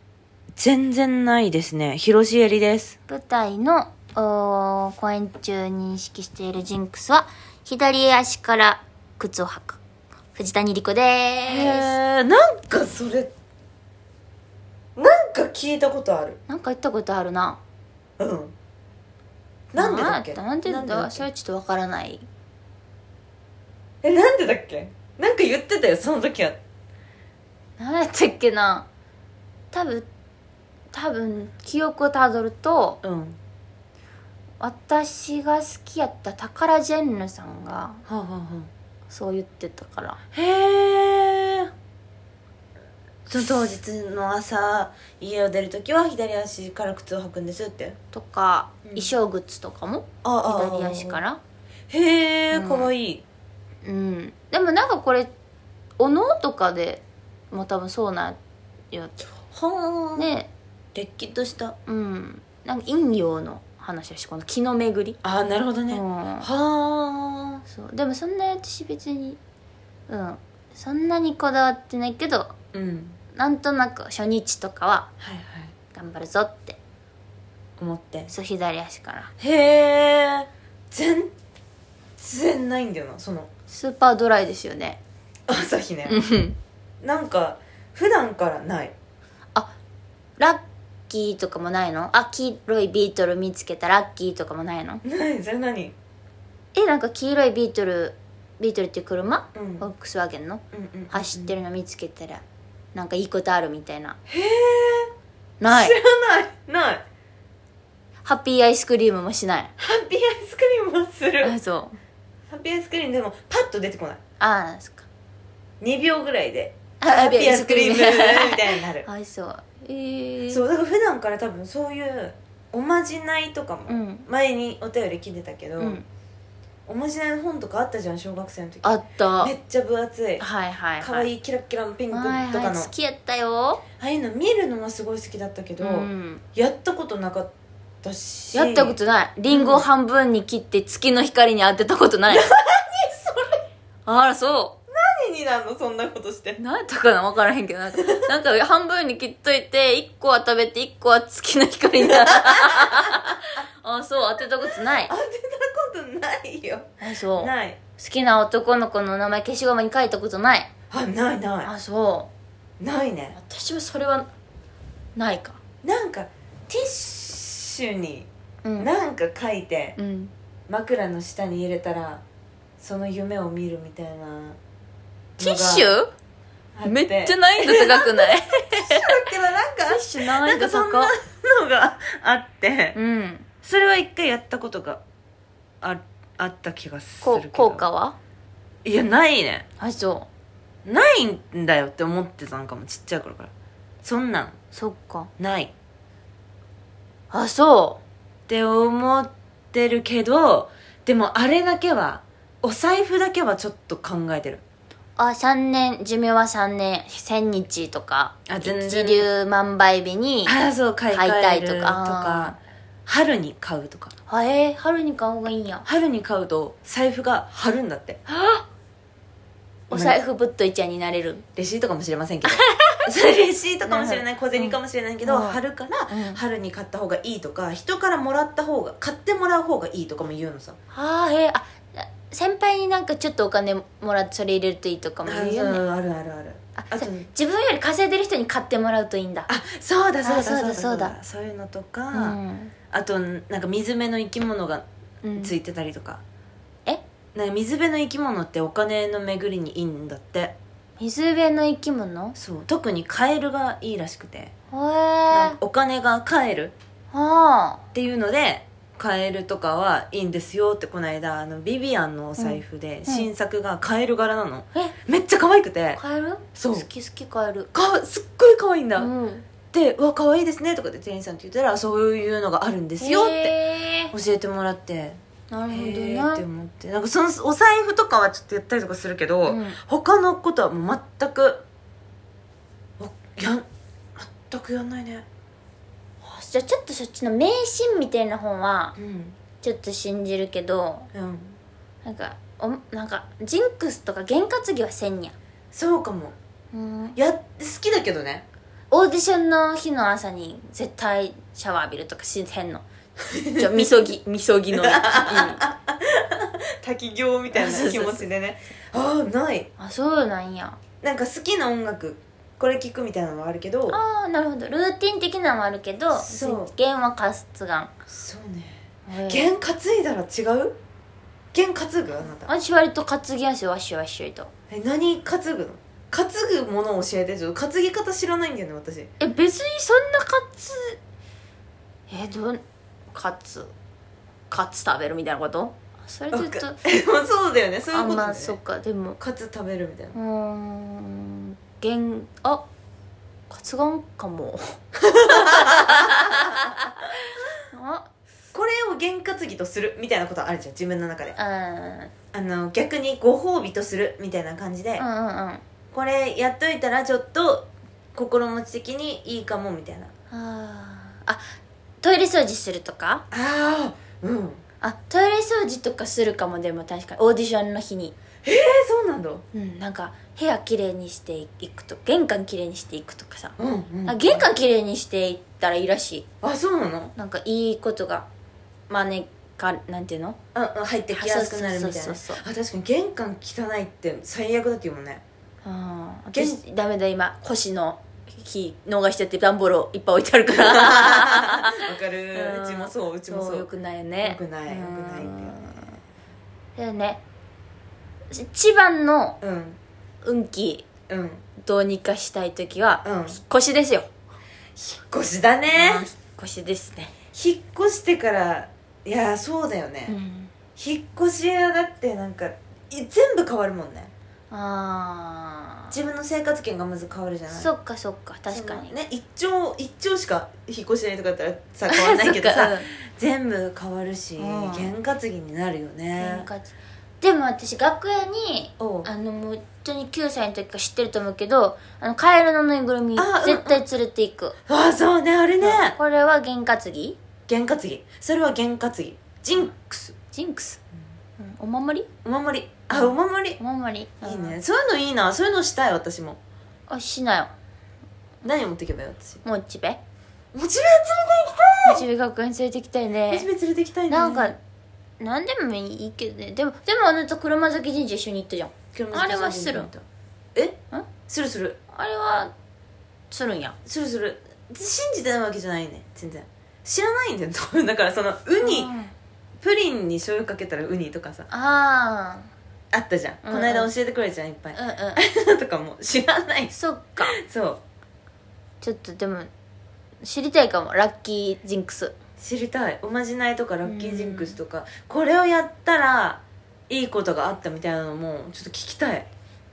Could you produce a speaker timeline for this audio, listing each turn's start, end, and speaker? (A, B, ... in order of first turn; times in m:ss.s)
0:00.6-0:03.0 A
0:03.1-0:09.8 B
0:10.4-0:11.9 B
0:11.5-0:13.3 A
0:15.0-0:16.4 A
0:16.5-0:17.6 B
0:18.2-0:18.5 A
0:19.7-0:21.3 A
0:19.7-0:22.2 B
0:24.0-0:26.6 A
0:27.8-0:28.9 B
0:29.7-0:30.1 B
0:30.9-0:33.0 B
0:33.0-0:33.4 A
0:34.6-0:38.0 B
0:38.1-0:38.7 A
0:39.1-0:40.2 B
0:40.3-0:41.7 A
0:43.3-0:48.0 A
0:48.1-0:51.4 B
0:50.2-0:51.2 A
0:51.9-0:53.2 A
0:52.5-0:52.9 B
0:53.8-0:55.3 B
0:56.0-0:58.4 B
0:58.9-0:59.2 B
0:59.5-1:00.3 A
1:00.2-1:00.5 B
1:01.0-1:01.8 A
1:01.9-1:05.2 B
1:05.2-1:07.6 A
1:05.9-1:06.5 B
1:07.7-1:09.4 B
1:10.1-1:12.5 B
1:12.7-1:13.2 A
1:13.4-1:15.1 B
1:15.2-1:15.7 A
1:15.9-1:16.8 B
1:17.8-1:18.3 A
1:18.3-1:19.3 B
1:19.4-1:21.3 A
1:22.2-1:23.5 A
1:23.7-1:25.0 B
1:25.5-1:26.2 A
1:26.1-1:26.6 B
1:27.0-1:28.9 A
1:30.4-1:35.0 B
1:35.0-1:36.0 A
1:36.7-1:42.4 B
1:39.6-1:39.9 A
1:40.7-1:41.6 A
1:42.9-1:44.2 B
1:44.3-1:45.1 A
1:45.6-1:46.0 B
1:45.7-1:47.0 A
1:48.2-1:49.7 B
1:49.8-1:51.6 A
1:51.4-1:52.0 B
1:52.5-1:54.2 A
1:54.4-1:55.1 B
1:55.8-1:59.0 A
1:57.0-2:00.6 B
2:00.5-2:06.0 A
2:03.9-2:04.3 B
2:05.8-2:06.1 B
2:06.9-2:10.4 A
2:08.8-2:09.5 B
2:10.4-2:11.3 B
2:11.0-2:12.9 A
2:12.1-2:13.8 B
2:14.0-2:17.5 A
2:15.8-2:16.4 B
2:18.0-2:19.0 A
2:18.5-2:22.5 B
2:19.5-2:19.8 A
2:22.3-2:23.6 A
2:24.1-2:24.8 B
2:24.9-2:26.6 A
2:26.6-2:35.1 B
2:32.0-2:33.2 A
2:34.4-2:37.8 A
2:37.0-2:40.7 B
2:40.9-2:41.7 A
2:41.6-2:42.3 B
2:42.8-2:43.4 A
2:43.3-2:44.3 B
2:45.2-2:45.6 B
2:45.8-2:50.0 A
2:48.6-2:48.9 B
2:50.0-2:50.3 B
2:50.7-2:52.2 A
2:52.8-2:54.6 A
2:55.4-2:56.1 B
2:55.4-2:55.9 A
2:56.8-3:03.0 A
2:56.8-2:59.2 B
2:59.9-3:01.1 B
3:03.0-3:03.5 B
3:03.6-3:05.0 A
3:05.8-3:07.8 A
3:07.2-3:08.2 B
3:08.8-3:09.7 A
3:09.8-3:10.3 B
3:10.8-3:13.5 A
3:14.0-3:14.6 A
3:14.7-3:15.3 B
3:15.4-3:15.7 A
3:17.3-3:18.0 B
3:18.5-3:24.6 A
3:25.2-3:30.6 B
3:28.5-3:29.3 A
3:30.4-3:34.1 A
3:31.1-3:32.6 B
3:34.3-3:35.8 B
3:35.8-3:38.2 A
3:38.3-3:38.6 B
3:39.9-3:41.4 B
3:39.9-3:40.2 A
3:41.6-3:50.8 A
3:42.5-3:43.0 B
3:43.8-3:46.4 B
3:50.9-3:55.8 B
3:55.2-3:57.3 A
3:56.8-3:59.5 B
3:59.5-4:02.4 A
4:00.2-4:01.2 B
4:02.1-4:02.7 B
4:02.9-4:04.8 A
4:05.2-4:05.6 B
4:05.4-4:06.2 A
4:07.4-4:10.6 A
4:11.0-4:12.4 B
4:12.4-4:14.5 A
4:14.7-4:15.6 B
4:15.3-4:16.7 A
4:17.1-4:17.8 B
4:17.9-4:26.0 A
4:22.4-4:23.3 B
4:26.0-4:27.7 B
4:26.6-4:26.9 A
4:27.7-4:29.1 A
4:29.0-4:29.4 B
4:29.7-4:33.6 A
4:33.0-4:34.1 B
4:34.1-4:35.2 A
4:35.5-4:36.4 B
4:35.7-4:41.6 A
4:39.4-4:39.8 B
4:43.0-4:43.6 A
4:44.2-4:45.2 A
4:46.2-4:49.0 B
4:49.0-4:49.4 A
4:49.6-4:51.1 B
4:51.1-4:51.6 A
4:52.0-4:55.4 B
4:55.7-4:56.4 A
4:56.7-4:57.2 B
4:57.2-4:58.5 A
4:58.9-5:02.8 B
5:03.4-5:03.9 A
5:03.5-5:05.6 B
5:04.8-5:09.7 A
5:07.5-5:08.3 B
5:09.8-5:10.8 B
5:11.0-5:14.0 A
5:13.9-5:17.9 B
5:16.2-5:16.7 A
5:18.1-5:20.8 A
5:19.1-5:19.5 B
5:21.5-5:22.5 A
5:22.5-5:24.5 B
5:24.7-5:29.1 A
5:29.2-5:31.0 B
5:32.1-5:33.7 B
5:34.5-5:36.8 B
5:36.3-5:38.6 A
5:37.9-5:39.2 B
5:39.2-5:40.2 A
5:40.2-5:42.7 B
5:43.5-5:46.9 B
5:45.2-5:46.8 A
5:47.7-5:48.1 B
5:48.5-5:51.4 A
5:51.4-5:52.1 B
5:52.3-5:55.1 A
5:55.0-5:55.6 B
5:55.9-6:00.1 A
6:00.3-6:03.2 B
6:03.3-6:04.6 A
6:04.8-6:08.2 B
6:08.4-6:09.4 A
6:09.5-6:13.6 B
6:13.6-6:14.5 A
6:14.1-6:16.3 B
6:16.4-6:17.1 A
6:17.2-6:18.3 B
6:18.9-6:20.4 B
6:20.5-6:25.2 A
6:21.1-6:22.4 B
6:25.6-6:36.0 B
6:26.3-6:26.6 A
6:30.6-6:33.7 A
6:34.2-6:35.6 A
6:36.8-6:37.2 B
6:38.3-6:39.4 B
6:39.4-6:39.8 A
6:40.2-6:40.9 B
6:41.1-6:41.4 A
6:41.6-6:44.1 B
6:43.0-6:43.4 A
6:44.8-6:46.1 A
6:45.7-6:47.1 B
6:47.3-6:50.2 A
6:50.1-6:50.5 B
6:50.8-6:54.1 A
6:54.5-6:55.9 B
6:55.9-6:57.7 A
6:57.5-6:58.9 B
6:58.5-7:06.5 A
7:01.9-7:02.9 B
7:04.4-7:04.9 B
7:06.2-7:14.6 B
7:08.8-7:09.1 A
7:13.2-7:13.8 A
7:14.7-7:16.0 A
7:15.6-7:17.2 B
7:17.5-7:20.2 A
7:20.3-7:20.8 B
7:21.4-7:22.1 B
7:22.2-7:23.6 A
7:22.9-7:24.6 B
7:24.2-7:26.4 A
7:26.9-7:27.5 B
7:28.4-7:29.4 A
7:29.4-7:30.0 B
7:30.5-7:32.0 A
7:31.8-7:33.5 B
7:33.3-7:34.5 A
7:34.1-7:34.6 B
7:35.2-7:39.9 B
7:38.9-7:40.0 A
7:40.6-7:41.8 A
7:41.9-7:42.5 B
7:43.3-7:43.8 B
7:43.9-7:48.9 A
7:48.6-7:49.1 B
7:49.6-7:51.5 A
7:51.5-7:52.5 B
7:52.9-7:57.8 A
7:53.4-7:53.9 B
7:54.8-7:55.2 B
7:56.7-7:57.4 B
7:58.8-7:59.5 B
8:00.2-8:02.2 B
8:02.4-8:09.3 A
8:03.8-8:04.6 B